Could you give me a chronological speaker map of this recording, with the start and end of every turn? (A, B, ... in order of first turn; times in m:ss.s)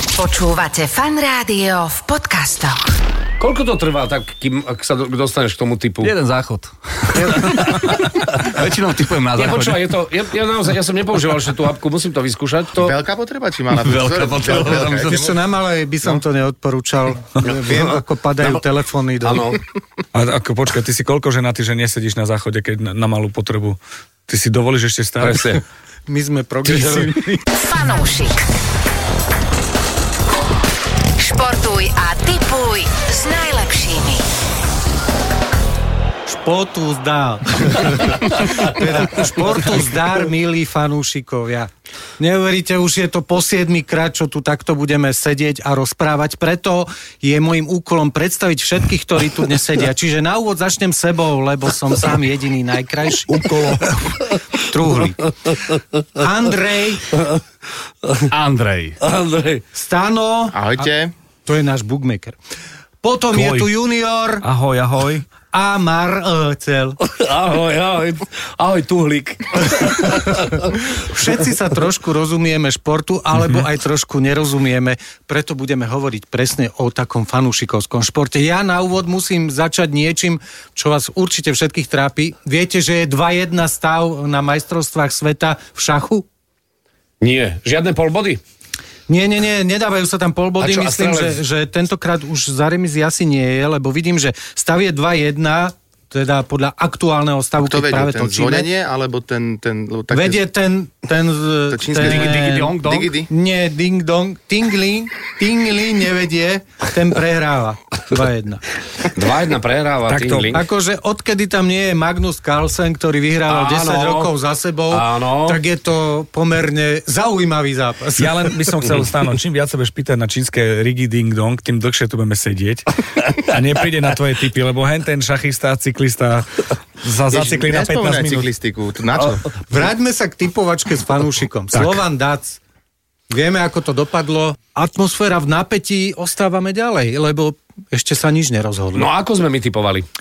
0:00.2-0:02.9 A
0:03.4-0:06.1 B
0:06.0-0:09.8 C
0:09.4-0:13.0 B
0:12.8-0:15.4 D
0:13.7-0:15.2 C
0:14.7-0:19.5 E
0:17.7-0:18.6 B
0:19.2-0:19.6 B
0:20.1-0:25.6 F
0:25.2-0:25.6 B
0:26.1-0:27.4 E
0:26.7-0:27.1 B
0:27.5-0:28.4 A
0:31.2-0:34.2 A
0:36.3-0:53.8 E
0:53.4-0:53.6 F
0:54.6-0:55.3 E
0:56.2-0:57.1 E
0:58.3-0:59.0 C
0:59.0-0:59.6 B
0:59.7-1:00.9 E
1:00.5-1:01.1 D
1:01.5-1:02.4 E
1:03.0-1:04.5 E
1:03.3-1:03.7 F
1:04.4-1:05.2 F
1:05.5-1:07.0 E
1:07.0-1:10.7 B
1:10.9-1:26.2 E
1:27.2-1:28.4 B
1:29.1-1:38.7 E
1:30.6-1:31.4 B
1:37.6-1:40.4 D
1:40.1-1:48.6 E
1:41.7-1:43.3 D
1:42.0-1:43.2 C
1:49.2-1:50.6 B
1:50.1-1:50.5 F
1:50.5-1:58.6 E
1:53.5-1:54.3 B
1:54.9-1:55.6 B
1:58.2-2:08.5 F
2:07.3-2:09.5 D
2:09.7-2:12.6 E
2:13.3-2:19.1 E
2:18.9-2:20.1 B